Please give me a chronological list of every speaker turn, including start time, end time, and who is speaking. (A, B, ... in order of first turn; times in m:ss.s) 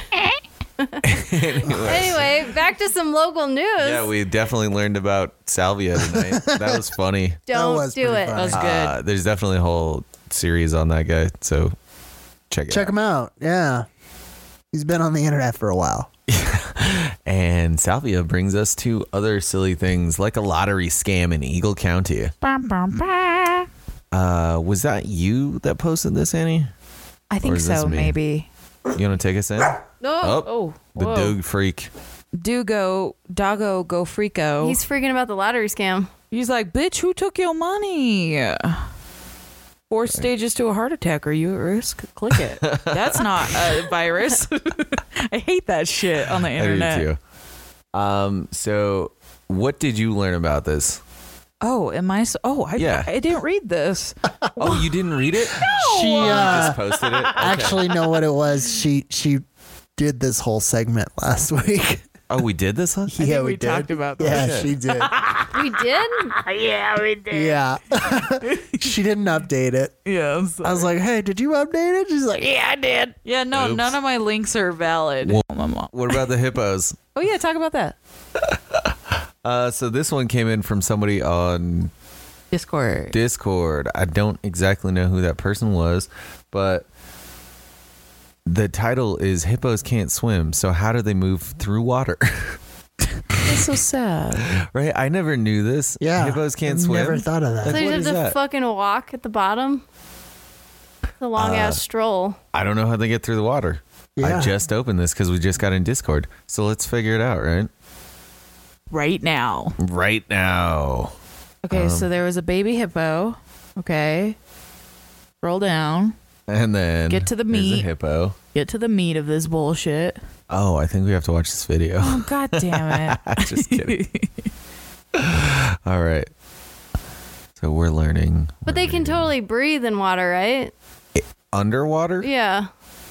0:01.0-0:02.2 A
0:01.8-0:04.1 B
0:03.8-0:07.4 A
0:06.0-0:06.9 C
0:07.5-0:08.5 B
0:07.5-0:08.6 C
0:08.3-0:08.9 D
0:08.5-0:11.7 A
0:12.5-0:12.9 A
0:12.7-0:13.8 C
0:14.7-0:16.1 C
0:16.3-0:22.3 A
0:22.4-0:23.7 D
0:24.1-0:26.7 A
0:27.3-0:28.5 D
0:27.4-0:28.1 A
0:28.9-0:31.9 A
0:30.0-0:31.4 B
0:30.4-0:30.8 D
0:32.3-0:34.8 D
0:34.6-0:36.1 B
0:36.3-0:38.8 D
0:39.9-0:47.1 D
0:42.6-0:43.5 A
0:46.4-0:47.2 A
0:47.9-0:51.0 A
0:51.6-0:54.8 D
0:52.8-0:53.1 A
0:54.5-0:54.8 C
0:54.6-0:57.9 A
0:55.6-0:56.8 D
0:55.6-0:56.8 C
0:57.3-0:59.4 C
1:00.0-1:02.0 C
1:02.3-1:03.2 A
1:03.1-1:05.5 C
1:03.2-1:04.6 D
1:04.2-1:04.7 A
1:05.5-1:06.4 B
1:06.5-1:07.6 D
1:07.3-1:10.0 C
1:08.1-1:08.8 D
1:10.0-1:10.9 D
1:10.6-1:13.1 C
1:13.2-1:16.2 D
1:13.5-1:14.0 A
1:15.2-1:17.0 A
1:17.1-1:18.0 D
1:19.4-1:21.9 A
1:22.5-1:23.2 D
1:23.1-1:26.8 A
1:28.4-1:32.6 A
1:33.4-1:34.5 D
1:34.5-1:38.4 A
1:36.0-1:37.9 C
1:37.7-1:39.8 B
1:41.2-1:42.4 B
1:41.4-1:41.8 A
1:42.5-1:47.7 A
1:44.2-1:44.5 C
1:48.9-1:49.7 D
1:49.8-1:51.1 A
1:51.6-1:54.4 D
1:51.7-1:52.1 A
1:55.4-1:56.1 D
1:56.5-1:58.4 A
1:57.1-1:57.9 D
1:58.5-2:00.2 D
2:00.5-2:04.0 A
2:02.0-2:04.3 D
2:05.1-2:06.3 A
2:07.6-2:09.3 A
2:08.6-2:10.7 B
2:11.2-2:12.3 A
2:12.2-2:12.7 B